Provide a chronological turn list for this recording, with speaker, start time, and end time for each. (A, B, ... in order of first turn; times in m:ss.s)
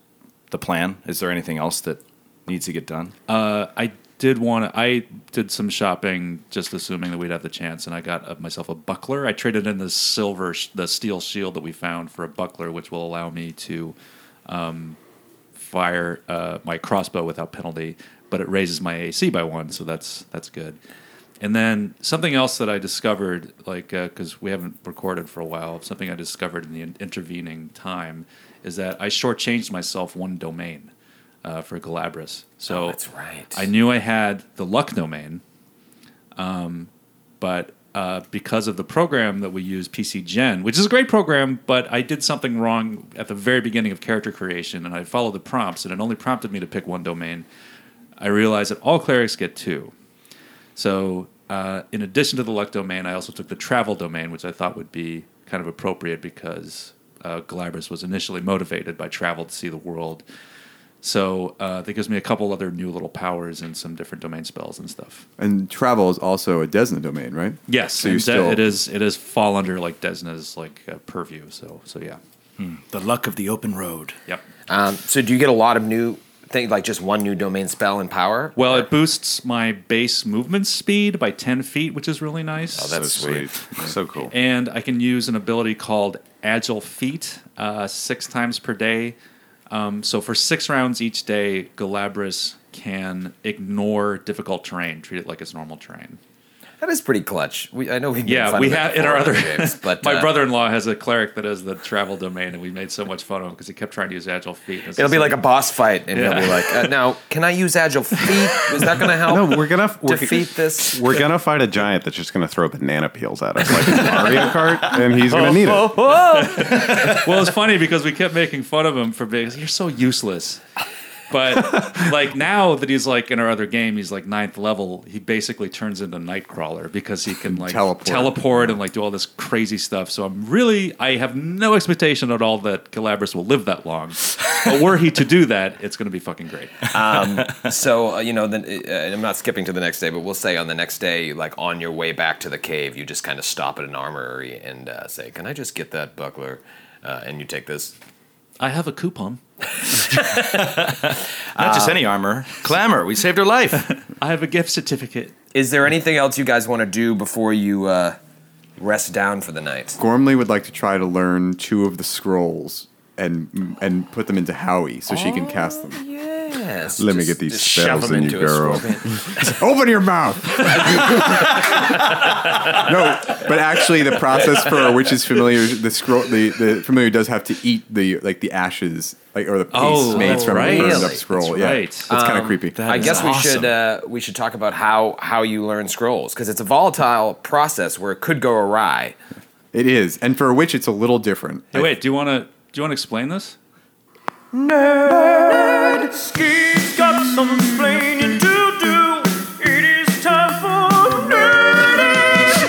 0:00.5-0:03.1 A
0:03.3-0:13.9 B
0:14.5-0:15.0 B
0:15.5-0:20.8 B
0:21.4-0:30.9 B
0:31.4-0:33.0 B
0:32.7-0:33.6 C
0:33.5-0:35.4 B
0:36.4-0:47.4 B
0:48.2-0:49.9 B
0:50.8-1:00.2 B
1:01.0-1:05.2 B
1:05.4-1:08.7 D
1:07.7-1:12.2 B
1:12.6-1:14.2 A
1:14.7-1:18.9 C
1:18.6-1:23.1 B
1:22.7-1:23.9 C
1:22.9-1:24.3 E
1:24.3-1:29.2 B
1:29.7-1:36.2 B
1:36.8-1:40.3 C
1:38.2-1:45.4 B
1:45.0-1:51.2 C
1:46.1-1:46.9 B
1:49.2-1:56.1 E
1:55.2-1:57.2 C
1:56.4-2:00.6 B
1:56.7-1:57.0 A
2:01.3-2:16.8 B
2:07.4-2:08.8 D
2:16.9-2:27.9 C
2:28.6-2:29.4 B
2:29.8-2:31.0 C
2:30.4-2:33.9 A
2:31.5-2:32.1 C
2:33.9-2:35.3 B
2:35.5-2:38.2 C
2:38.8-2:40.0 C
2:40.0-2:46.0 D
2:45.1-2:49.5 C
2:47.0-2:48.9 E
2:49.3-3:02.8 D
2:50.9-2:51.2 C
2:59.7-3:02.1 B
3:00.1-3:01.2 C
3:02.1-3:09.2 C
3:02.7-3:03.7 A
3:02.9-3:03.4 B
3:09.7-3:11.9 D
3:11.7-3:13.6 B
3:15.0-3:16.0 C
3:15.2-3:15.4 A
3:16.1-3:22.3 A